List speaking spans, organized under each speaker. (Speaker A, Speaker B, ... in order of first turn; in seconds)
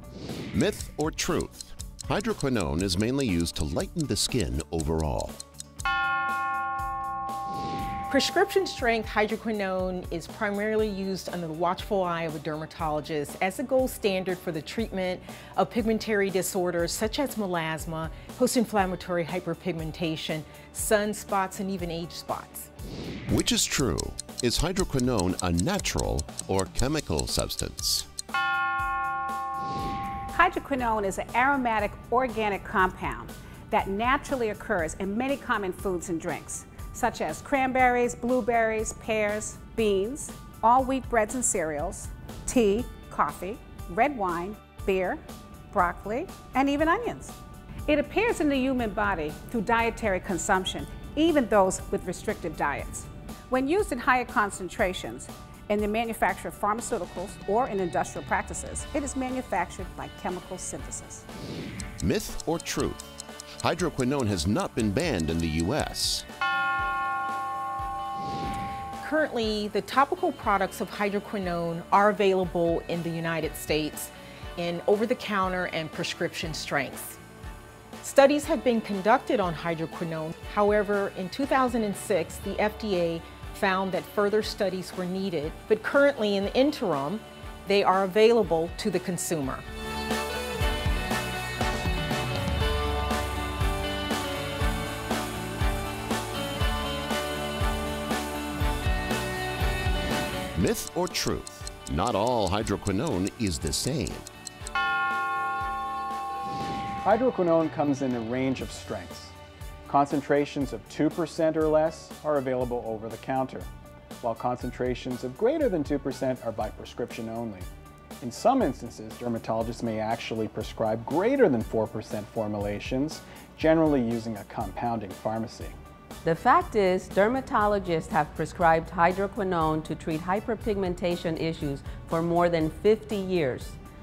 Speaker A: 0.5-5.4, 23.3-28.1, 62.0-66.2, 100.5-104.3
Speaker B: 8.1-22.7, 69.0-77.2, 78.0-89.6
Speaker C: 30.3-47.3, 47.9-61.2
Speaker D: 107.0-109.3, 109.9-113.7, 114.2-117.7, 118.2-125.7
Speaker E: 126.2-133.8